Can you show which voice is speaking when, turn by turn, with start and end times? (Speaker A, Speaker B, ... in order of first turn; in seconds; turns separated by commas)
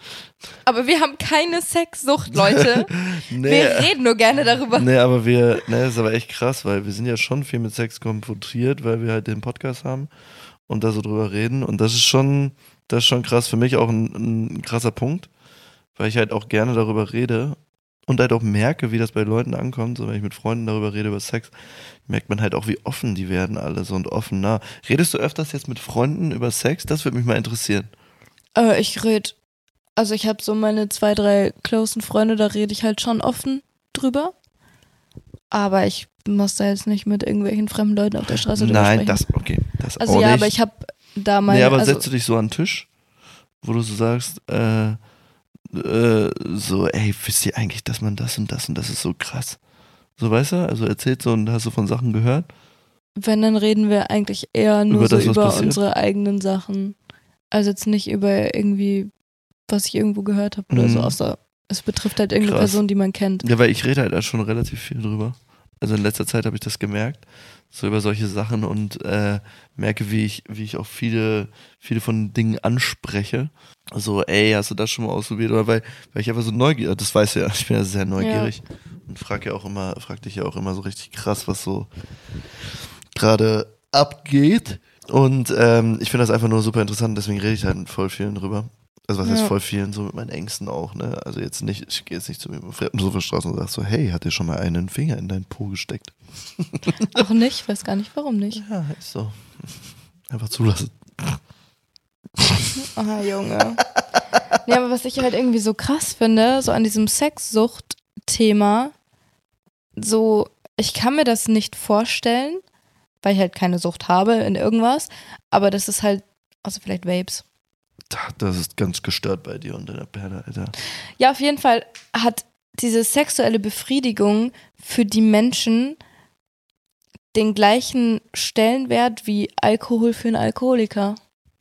Speaker A: 0.6-4.9, Speaker B: 2.5-3.9, Speaker B: 4.7-10.1, Speaker B: 10.7-15.3, Speaker B: 15.9-21.5, Speaker B: 22.1-27.9, Speaker A: 28.5-29.3, Speaker A: 30.0-34.3, Speaker A: 35.5-39.2, Speaker B: 38.5-40.5, Speaker A: 40.0-42.0, Speaker B: 41.5-42.9, Speaker B: 43.6-45.0, Speaker B: 45.7-49.6, Speaker B: 50.2-52.5, Speaker A: 53.2-56.9, Speaker B: 54.9-55.8, Speaker A: 57.5-59.1, Speaker A: 59.7-63.5, Speaker B: 60.7-61.2, Speaker B: 62.4-62.8, Speaker B: 63.4-81.9, Speaker A: 78.2-78.6, Speaker B: 83.1-97.2, Speaker A: 89.2-89.5, Speaker A: 97.0-98.6, Speaker B: 98.5-99.4, Speaker B: 100.3-101.4, Speaker A: 102.8-103.8, Speaker A: 104.6-108.9, Speaker A: 110.0-112.6, Speaker A: 113.2-117.4, Speaker B: 118.1-120.7, Speaker A: 121.2-126.0, Speaker A: 127.3-131.2